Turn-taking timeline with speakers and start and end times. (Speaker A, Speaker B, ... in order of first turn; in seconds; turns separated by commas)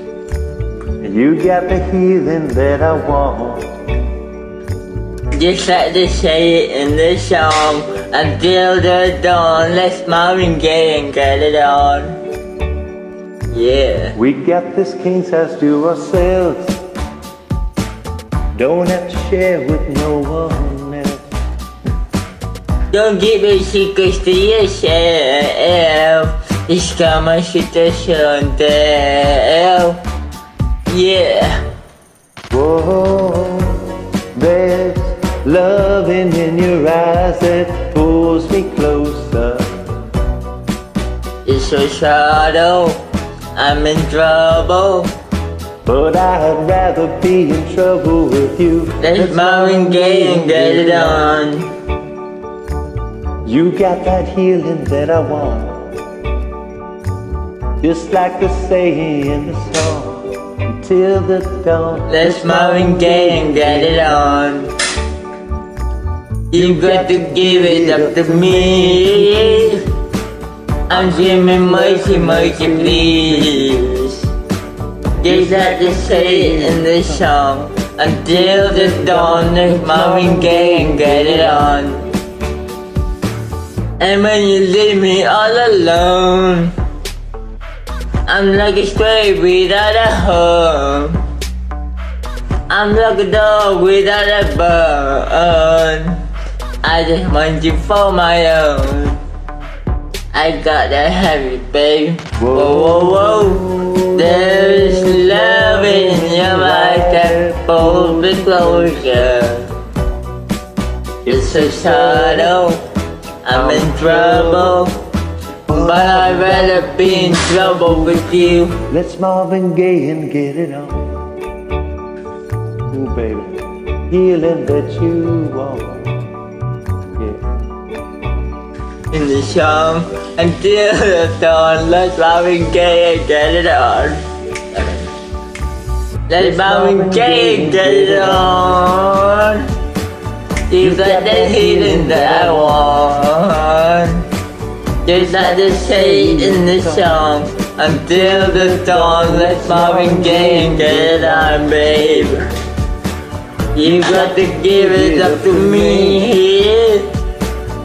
Speaker A: 1.0-3.7, Speaker B: 5.3-12.2, Speaker B: 13.5-14.2, Speaker A: 14.1-16.8, Speaker A: 18.6-21.2, Speaker B: 22.9-30.0, Speaker B: 30.9-31.6, Speaker A: 32.5-33.8, Speaker A: 34.3-39.6, Speaker B: 41.5-43.0, Speaker B: 43.5-45.1, Speaker A: 45.8-51.3, Speaker B: 49.0-51.7, Speaker A: 53.5-55.9, Speaker A: 57.8-60.2, Speaker A: 60.8-64.2, Speaker B: 62.1-64.7, Speaker B: 66.5-69.8, Speaker A: 66.5-69.8, Speaker B: 70.9-74.3, Speaker A: 70.9-73.8, Speaker A: 75.2-77.3, Speaker B: 75.2-82.0, Speaker A: 78.3-81.7, Speaker B: 84.0-86.7, Speaker B: 88.3-91.2, Speaker B: 92.7-96.2, Speaker B: 96.8-99.2, Speaker B: 100.3-103.6, Speaker A: 102.4-109.2, Speaker B: 104.1-109.7, Speaker A: 111.3-112.6, Speaker B: 111.3-112.8, Speaker B: 113.4-114.9, Speaker A: 113.5-114.9, Speaker A: 115.7-121.1, Speaker B: 115.7-118.8, Speaker A: 122.9-123.6, Speaker A: 124.1-126.1, Speaker B: 129.1-134.2, Speaker B: 134.7-135.0, Speaker B: 136.3-139.7, Speaker A: 136.4-138.8, Speaker B: 140.7-144.2, Speaker A: 140.8-142.8, Speaker B: 145.0-152.4, Speaker A: 145.1-147.2, Speaker A: 147.9-152.3, Speaker B: 153.7-157.1, Speaker A: 153.8-156.3